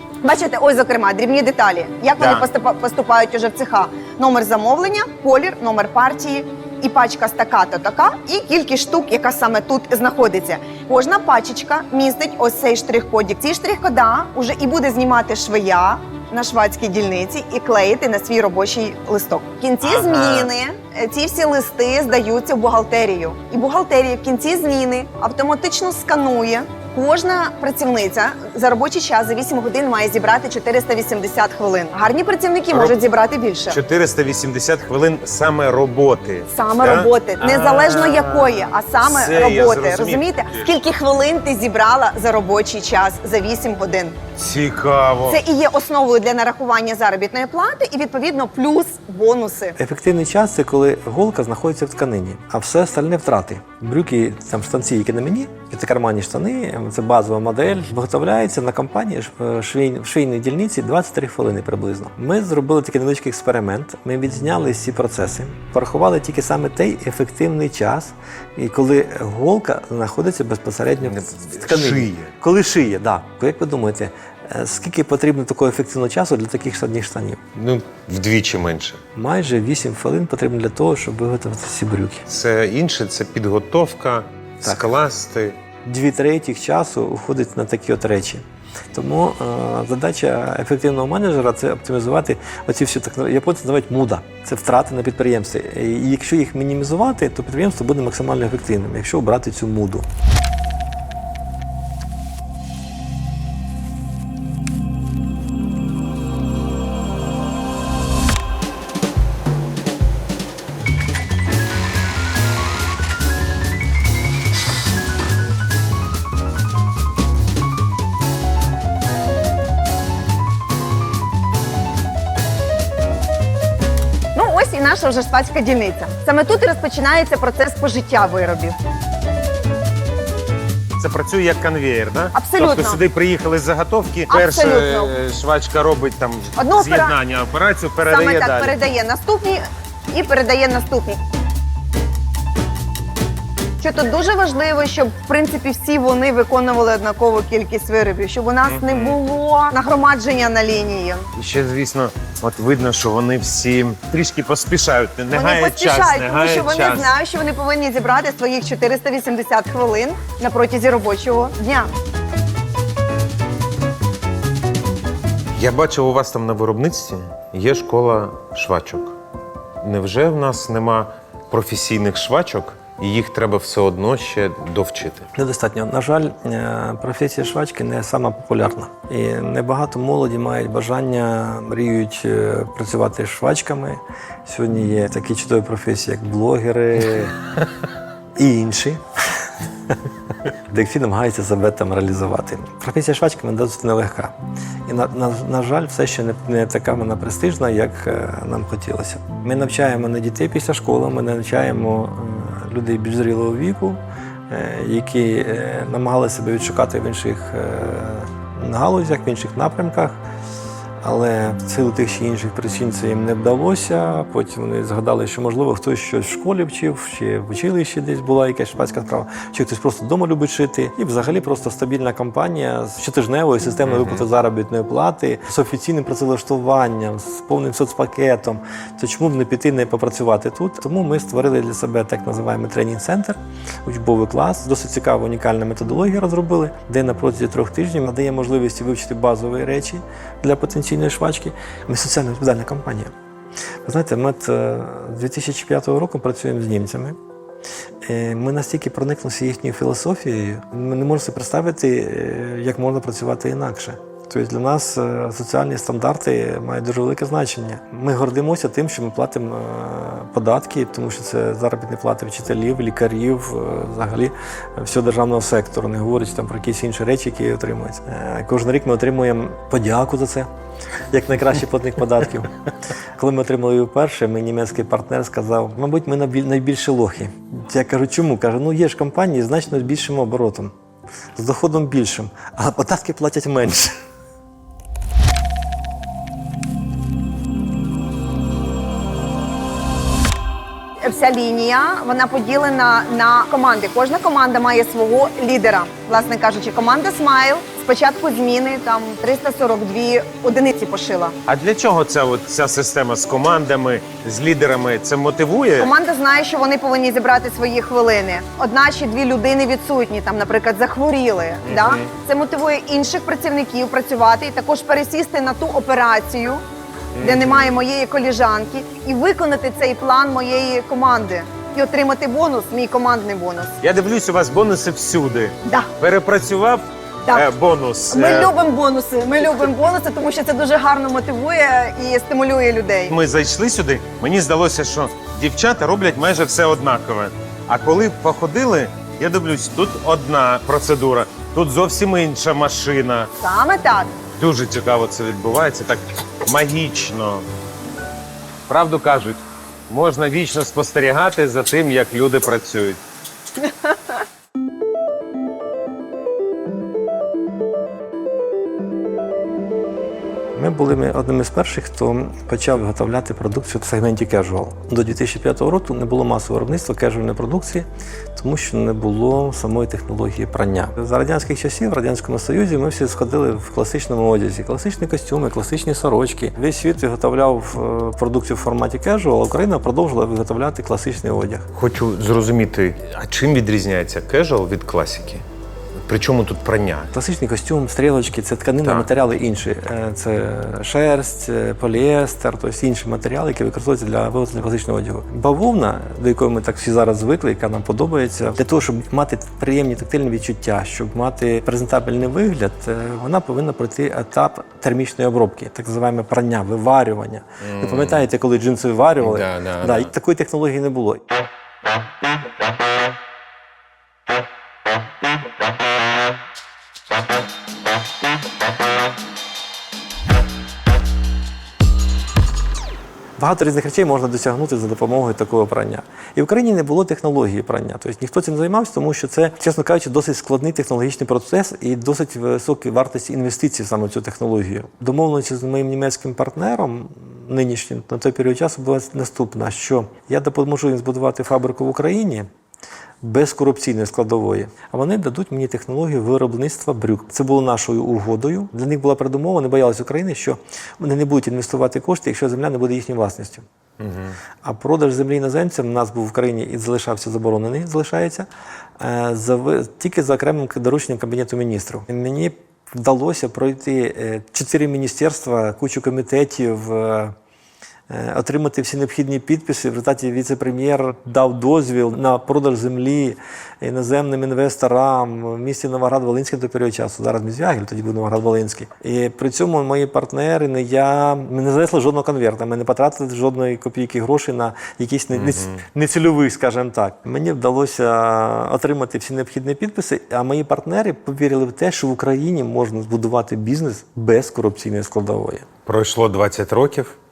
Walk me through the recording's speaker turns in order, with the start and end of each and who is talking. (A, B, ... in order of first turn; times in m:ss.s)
0:00.2-0:33.8 A
0:02.2-0:02.5 B
0:19.8-0:20.5 B
0:33.7-0:40.7 B
0:36.5-0:44.2 A
0:44.4-0:45.4 B
0:45.2-0:49.8 A
0:49.8-1:17.4 C
1:11.1-1:12.3 B
1:17.5-1:19.0 B
1:19.1-1:22.2 C
1:22.3-1:25.6 B
1:24.6-1:24.9 C
1:25.8-1:40.1 C
2:04.3-2:08.8 A
2:11.0-2:18.8 B
2:12.3-2:13.0 A
2:14.3-2:15.1 A
2:16.6-2:17.2 A
2:18.0-2:21.2 A
2:23.8-2:31.3 A
2:28.7-2:29.2 B
2:31.4-2:37.1 B
2:35.3-2:41.9 A
2:45.6-2:49.1 B
2:49.8-2:55.3 B
2:55.3-3:07.4 C
3:08.4-3:09.0 C
3:10.4-3:14.3 C
3:14.8-3:30.2 C
3:31.0-4:03.1 C
3:43.9-3:44.2 B
4:03.8-4:07.2 C
4:08.0-4:30.5 C
4:31.1-4:32.5 C
4:33.2-4:40.7 C
4:41.4-4:43.9 C
4:51.0-5:01.4 A
5:01.4-5:05.9 B
5:05.8-5:16.6 A
5:11.6-5:12.1 B
5:17.1-5:17.7 B
5:17.2-5:23.7 A
5:23.8-5:28.5 B
5:25.6-5:25.9 A
5:27.2-5:27.5 A
5:28.1-5:33.2 A
5:33.1-5:43.3 B
5:43.4-5:44.1 A
5:44.4-5:47.5 B
5:48.7-5:53.0 B
6:00.5-6:21.6 C
6:21.7-6:25.4 B
6:26.0-6:27.1 B
6:27.1-6:51.2 C
6:28.8-6:29.1 B
6:47.6-6:48.2 B
6:49.2-6:50.1 B
7:03.4-7:22.5 C
7:23.2-7:33.6 C
7:34.0-7:34.4 B
7:34.6-7:38.5 C
7:39.0-7:47.3 C
7:48.1-8:15.6 C
8:05.3-8:05.8 B
8:15.8-8:17.1 B